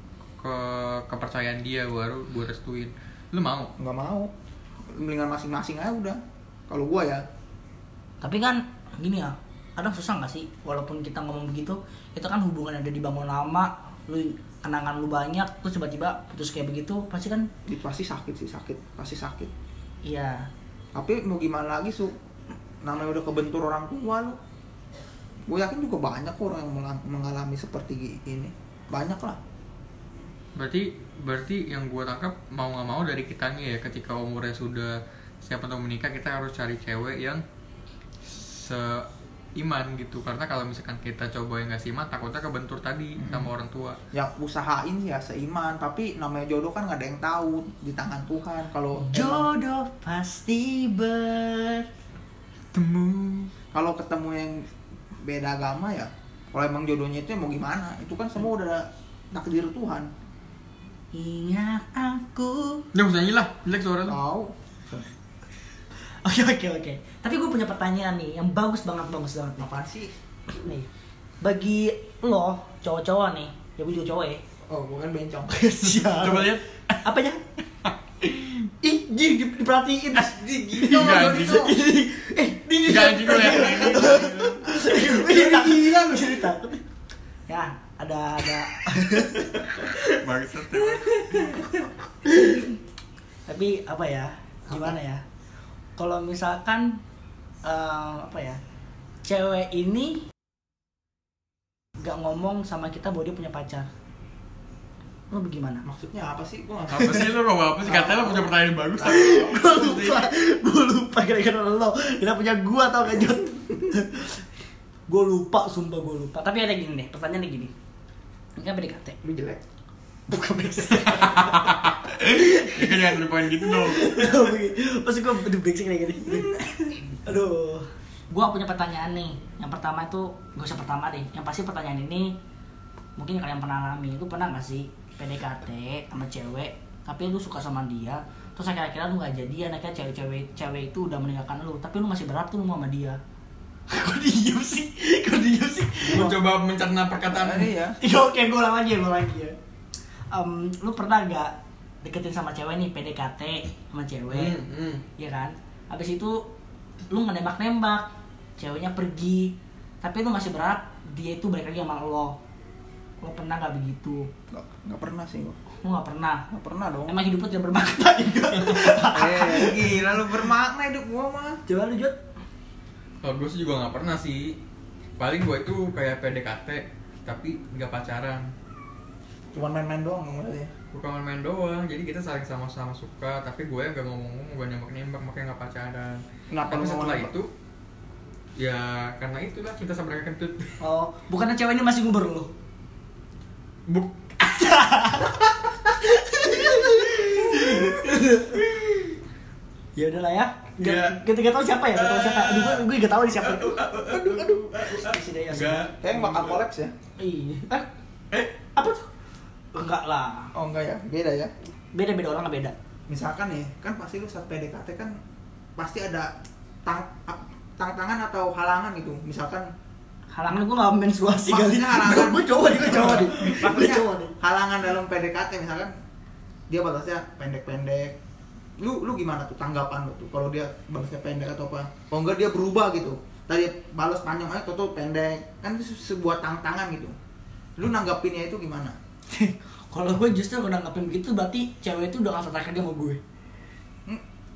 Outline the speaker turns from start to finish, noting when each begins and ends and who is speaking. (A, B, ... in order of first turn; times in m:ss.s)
0:00.4-0:03.7 A
0:03.8-0:04.3 B
0:04.9-0:07.2 B
0:08.2-0:17.5 C
0:17.7-0:19.5 B
0:20.0-0:20.5 C
0:20.9-0:22.1 B
0:22.8-0:24.4 B
0:25.5-0:29.4 B
0:30.6-0:37.4 A
0:38.2-0:44.0 A
0:43.2-0:43.5 B
0:44.1-0:49.5 B
0:49.0-0:51.9 C
0:52.7-0:53.5 A
0:53.7-0:54.7 B
0:55.2-1:00.1 B
1:01.1-1:02.9 C
1:02.9-1:04.2 A
1:04.1-1:05.0 B
1:06.2-1:09.7 C
1:09.6-1:10.1 B
1:10.6-1:10.9 C
1:11.4-1:14.4 C
1:14.7-1:15.5 B
1:15.5-1:17.4 C
1:15.8-1:17.0 A
1:17.8-1:18.7 A
1:18.8-1:26.8 C
1:20.2-1:21.7 B
1:20.9-1:21.7 A
1:22.8-1:24.6 A
1:23.8-1:26.5 B
1:27.5-1:32.8 C
1:29.9-1:31.6 A
1:33.5-1:35.2 C
1:36.0-1:37.0 C
1:37.6-1:38.6 C
1:39.2-1:40.3 C
1:42.0-1:43.9 C
1:45.3-1:45.8 C
1:45.8-1:48.5 B
1:46.9-1:50.3 A
1:49.0-1:54.4 C
1:55.1-1:57.7 C
1:58.6-1:59.2 C
1:59.2-1:59.6 B
2:00.3-2:12.4 C
2:00.9-2:04.4 A
2:06.4-2:06.6 B
2:13.2-2:23.2 C
2:23.9-2:26.4 C
2:26.0-2:27.7 A
2:27.3-2:28.0 B
2:28.0-2:29.5 C
2:30.3-2:34.6 C
2:34.3-2:35.0 A
2:35.2-2:36.4 C
2:37.1-2:38.1 C
2:38.6-2:42.4 C
2:43.2-2:44.3 C
2:44.5-2:45.6 B
2:45.8-2:46.4 C
2:46.5-2:47.2 B
2:47.1-2:50.0 C
2:49.1-2:51.6 B
2:51.7-2:52.2 C
2:53.2-2:54.6 A
2:55.2-2:58.5 A
2:59.5-3:00.7 B
3:00.9-3:07.5 A
3:06.5-3:07.3 B
3:08.6-3:10.8 A
3:10.8-3:12.5 C
3:13.9-3:14.4 A
3:14.4-3:18.8 C
3:16.6-3:18.1 A
3:20.0-3:25.9 C
3:20.8-3:21.2 A
3:21.9-3:26.6 A
3:26.0-3:26.9 B
3:27.2-3:27.9 C
3:28.7-3:29.1 C
3:29.7-3:30.5 C
3:30.5-3:31.5 B
3:31.9-3:32.7 C
3:33.1-3:35.1 B
3:35.8-3:36.3 B
3:36.8-3:39.7 B
3:40.3-3:44.3 C
3:41.4-3:45.9 B
3:46.7-3:48.2 B
3:48.8-3:57.1 B
3:57.8-3:58.9 B
3:59.3-4:03.2 C